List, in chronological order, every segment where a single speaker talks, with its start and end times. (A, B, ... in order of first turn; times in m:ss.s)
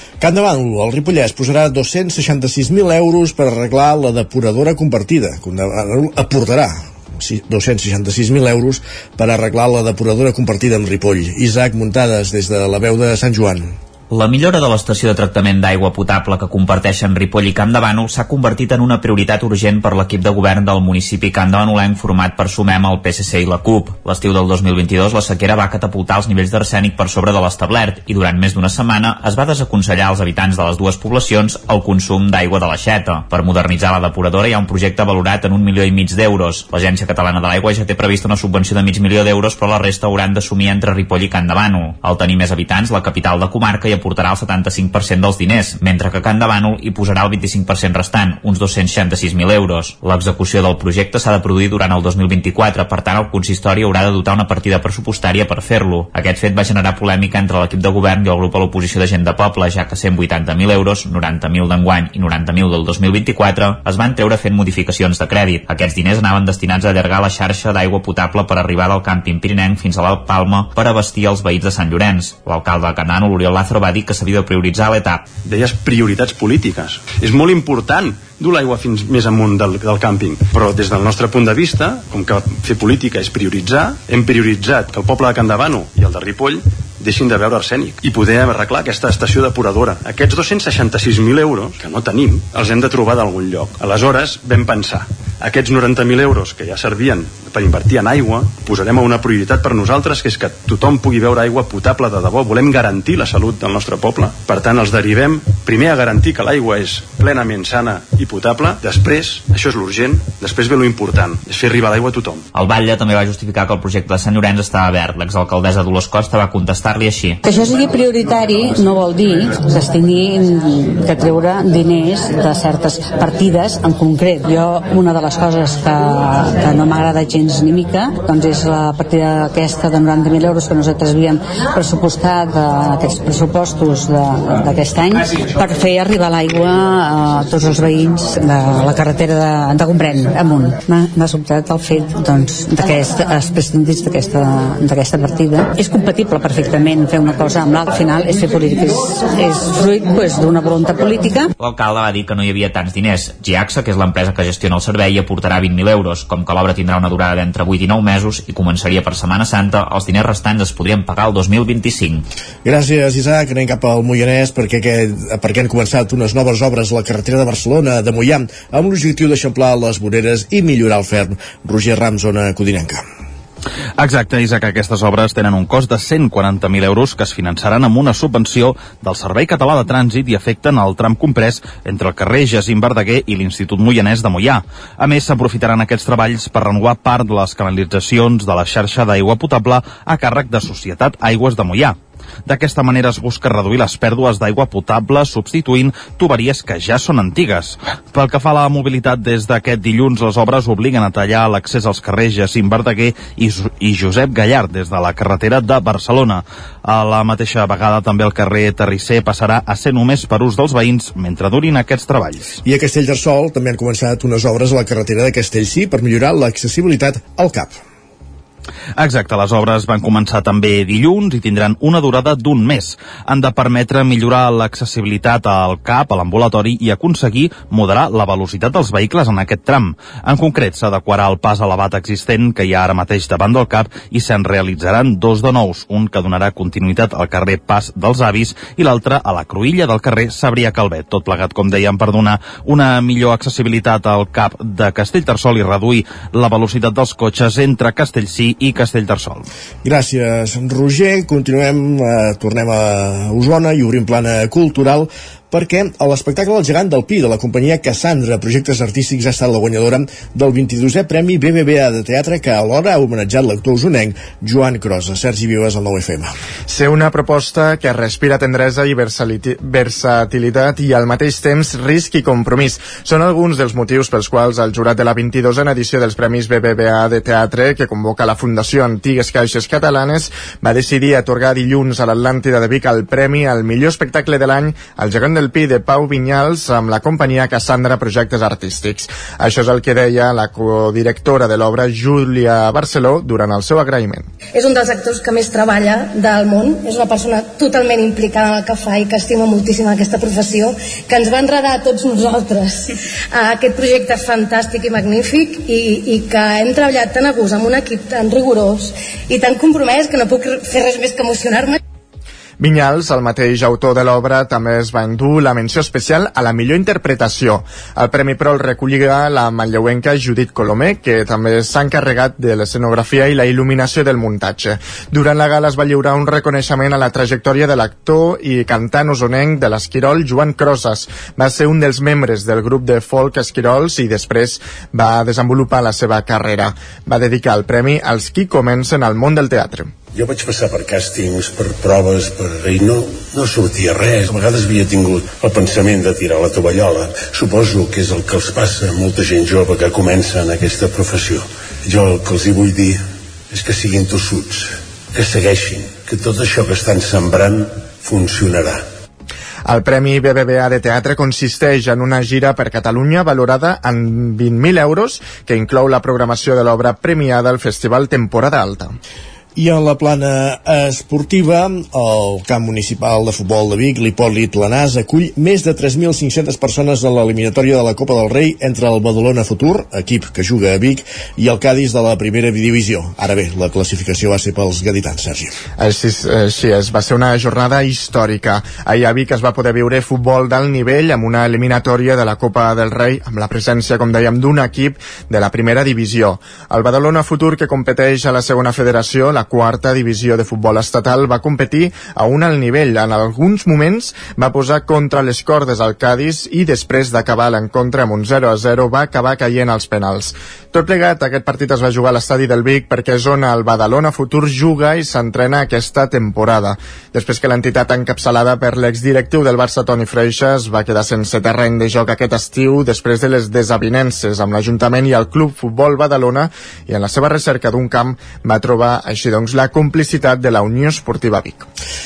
0:00.2-0:13.8 A
0:14.1-1:15.2 B
1:15.4-1:52.5 C
1:52.5-1:57.4 B
1:57.4-2:31.5 D
2:31.6-2:42.2 B
2:42.6-2:53.0 A
2:54.0-3:32.6 E
3:32.6-3:37.8 A
3:39.0-4:09.4 E
4:09.8-4:26.3 A
4:26.7-4:54.3 F
4:54.5-5:11.8 G
5:12.6-5:39.9 F
5:40.1-5:58.8 C
5:59.7-6:09.0 F
6:09.6-6:25.6 A
6:25.8-7:11.7 F